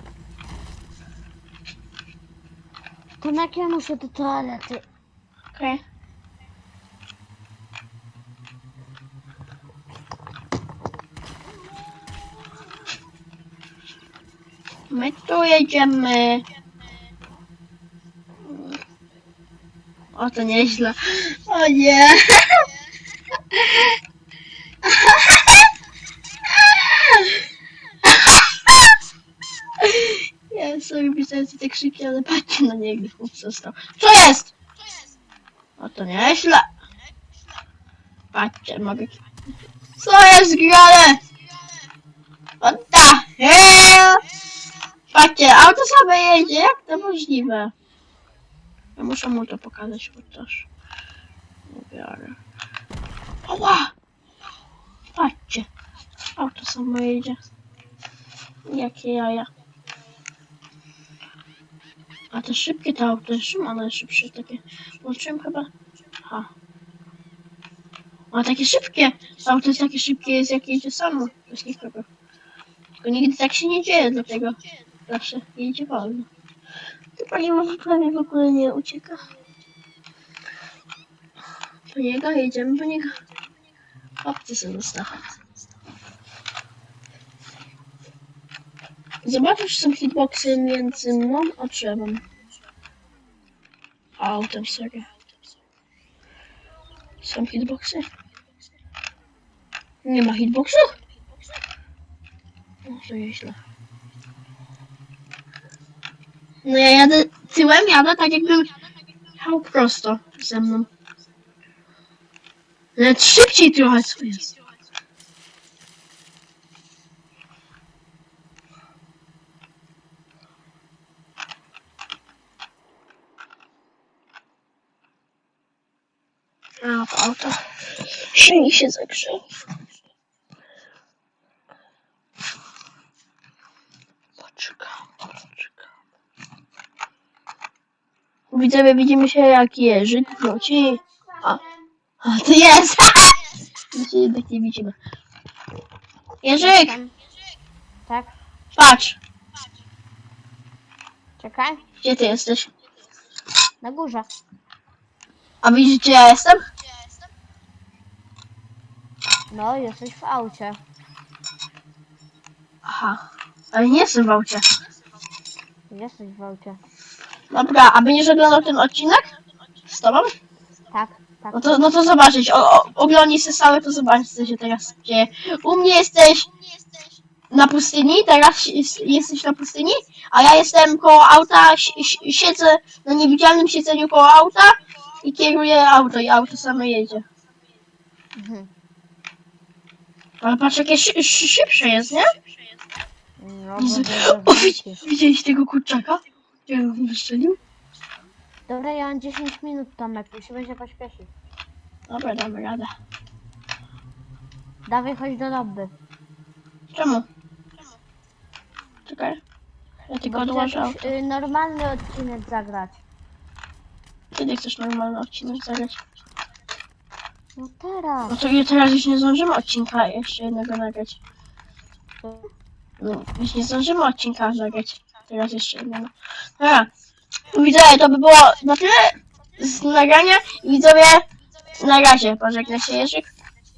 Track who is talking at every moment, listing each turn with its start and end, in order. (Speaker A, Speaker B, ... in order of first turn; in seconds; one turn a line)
Speaker A: 3.2-4.8
Speaker B: 5.5-5.8
Speaker B: 14.9-16.4
Speaker B: 18.5-18.8
Speaker B: 20.1-22.6
Speaker B: 23.5-23.9
Speaker B: 24.9-25.6
Speaker B: 26.5-27.4
Speaker B: 28.1-28.8
Speaker B: 29.8-34.5
Speaker B: 35.8-36.7
Speaker B: 38.3-39.2
Speaker B: 40.0-41.2
Speaker B: 42.6-44.2
Speaker B: 45.1-47.7
Speaker B: 49.0-50.7
Speaker B: 51.7-52.4
Speaker B: 53.5-53.9
Speaker B: 55.1-55.7
Speaker B: 56.4-57.4
Speaker B: 58.7-59.5
Speaker B: 62.3-65.7
Speaker B: 68.3-72.1
Speaker B: 73.0-76.3
Speaker B: 77.2-79.3
Speaker B: 81.9-83.2
Speaker B: 84.2-85.2
Speaker B: 89.2-92.2
Speaker B: 94.2-95.1
Speaker B: 97.2-98.1
Speaker B: 100.0-101.0
Speaker B: 102.9-103.6
Speaker B: 106.7-108.7
Speaker B: 109.4-110.9
Speaker B: 113.0-114.6
Speaker B: 126.8-129.4
Speaker B: 134.4-135.0
Speaker B: 138.5-141.6
Speaker A: 140.1-141.8
Speaker B: 142.2-145.0
Speaker B: 146.4-147.0
Speaker A: 146.6-147.1
Speaker A: 148.1-148.4
Speaker B: 148.8-149.2
Speaker A: 151.4-151.8
Speaker B: 152.0-152.7
Speaker A: 153.8-154.3
Speaker B: 155.6-156.6
Speaker A: 159.5-160.8
Speaker B: 162.8-163.2
Speaker B: 163.7-164.7
Speaker A: 165.9-166.8
Speaker B: 167.5-169.3
Speaker B: 169.9-170.3
Speaker A: 170.9-171.9
Speaker B: 171.5-176.5
Speaker B: 177.5-187.2
Speaker A: 188.3-188.7
Speaker B: 190.4-192.3
Speaker A: 193.4-195.1
Speaker B: 193.8-197.6
Speaker A: 198.7-201.3
Speaker B: 202.1-202.9
Speaker A: 204.9-205.9
Speaker B: 206.9-207.2
Speaker B: 209.1-209.4
Speaker B: 210.1-211.1
Speaker A: 210.2-213.0
Speaker B: 214.3-216.0
Speaker A: 217.6-218.4
Speaker B: 218.3-221.2
Speaker A: 222.2-222.5
Speaker B: 223.0-226.9
Speaker B: 227.5-231.2
Speaker B: 231.8-233.3